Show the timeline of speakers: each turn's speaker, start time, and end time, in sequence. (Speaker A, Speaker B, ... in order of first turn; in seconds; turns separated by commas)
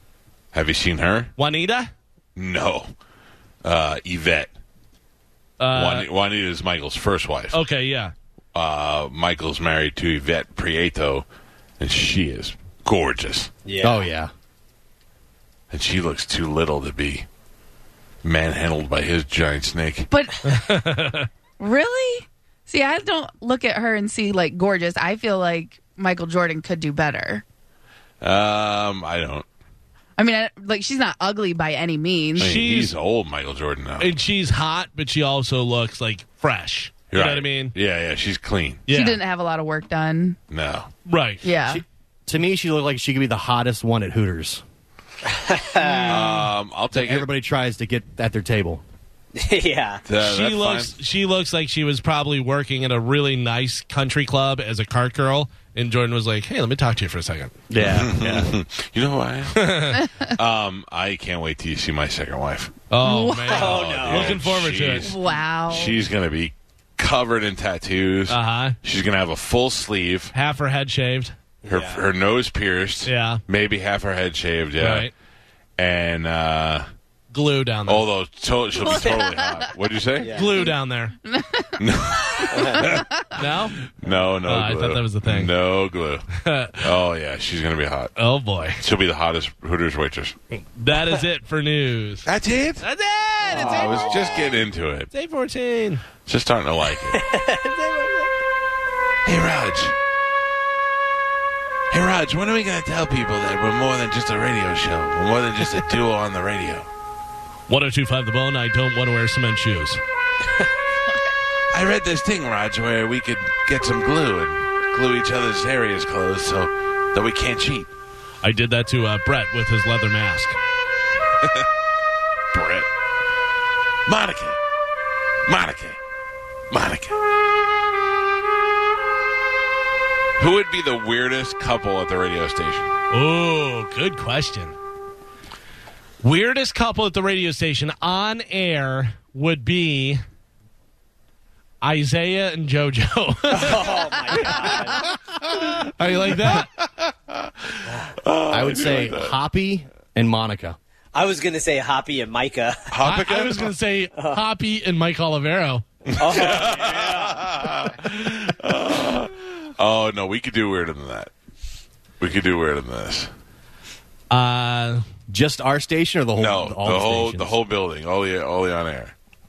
Speaker A: 0.5-1.3, Speaker B: 1.4-1.9, Speaker A: 2.4-2.9, Speaker A: 3.6-4.5, Speaker B: 5.6-6.1, Speaker A: 5.7-7.6, Speaker B: 7.5-8.1, Speaker A: 8.5-11.2, Speaker A: 11.8-13.5, Speaker C: 13.6-14.1, Speaker D: 13.8-14.3, Speaker A: 15.7-17.2, Speaker A: 18.2-20.1, Speaker E: 20.1-20.4, Speaker B: 20.4-21.3, Speaker E: 21.6-27.4, Speaker A: 28.2-29.4, Speaker E: 30.2-32.5, Speaker B: 32.4-32.9, Speaker A: 32.4-34.1, Speaker B: 34.0-37.7, Speaker A: 37.1-38.8, Speaker B: 38.9-39.2, Speaker E: 38.9-40.4, Speaker A: 40.5-40.9, Speaker B: 41.1-41.4, Speaker E: 41.4-41.8, Speaker D: 41.6-44.6, Speaker C: 45.3-46.1, Speaker E: 45.7-46.5, Speaker A: 46.0-47.3, Speaker D: 46.9-48.8, Speaker C: 49.4-50.0, Speaker A: 50.0-50.9, Speaker B: 50.2-57.5, Speaker D: 57.7-58.5, Speaker A: 57.8-59.8, Speaker B: 59.5-60.0, Speaker E: 60.0-60.3, Speaker A: 60.3-62.8, Speaker B: 62.9-65.1, Speaker E: 63.0-63.8, Speaker C: 63.5-64.4, Speaker A: 63.5-70.3, Speaker E: 65.0-65.9, Speaker B: 68.3-68.8, Speaker B: 70.3-71.3, Speaker C: 71.6-72.0, Speaker A: 71.7-75.1, Speaker B: 73.0-73.4, Speaker B: 74.8-75.1, Speaker A: 75.8-76.9, Speaker B: 77.3-78.0, Speaker A: 77.9-80.3, Speaker C: 78.8-79.4, Speaker E: 78.9-79.5, Speaker C: 80.2-80.5, Speaker B: 80.3-81.1, Speaker E: 80.4-83.4, Speaker A: 81.8-83.0, Speaker C: 82.5-82.9, Speaker B: 83.3-83.8, Speaker A: 83.8-88.1, Speaker B: 84.5-85.5, Speaker B: 86.4-86.8, Speaker B: 88.2-88.8, Speaker A: 88.8-90.3, Speaker B: 90.5-92.3, Speaker A: 92.2-92.8, Speaker B: 92.8-94.2, Speaker C: 93.5-94.5, Speaker A: 93.5-95.1, Speaker B: 95.1-96.0, Speaker A: 96.2-97.2, Speaker C: 97.0-98.3, Speaker A: 99.2-99.9, Speaker A: 101.9-106.9, Speaker B: 107.7-110.0, Speaker A: 111.7-117.9, Speaker B: 118.4-120.6, Speaker A: 122.5-122.9, Speaker A: 124.0-124.6, Speaker A: 125.5-126.0, Speaker A: 126.7-127.2, Speaker A: 130.4-132.9, Speaker B: 133.1-134.7, Speaker B: 136.2-140.2, Speaker B: 141.8-143.9, Speaker C: 143.5-145.0, Speaker A: 145.4-149.4, Speaker B: 145.9-146.7, Speaker D: 148.5-150.8, Speaker C: 151.1-152.8, Speaker A: 152.9-153.7, Speaker B: 153.0-155.8, Speaker A: 156.1-161.3, Speaker C: 156.2-157.5, Speaker A: 162.2-163.3, Speaker B: 164.3-165.0, Speaker D: 165.3-167.5, Speaker A: 166.4-169.1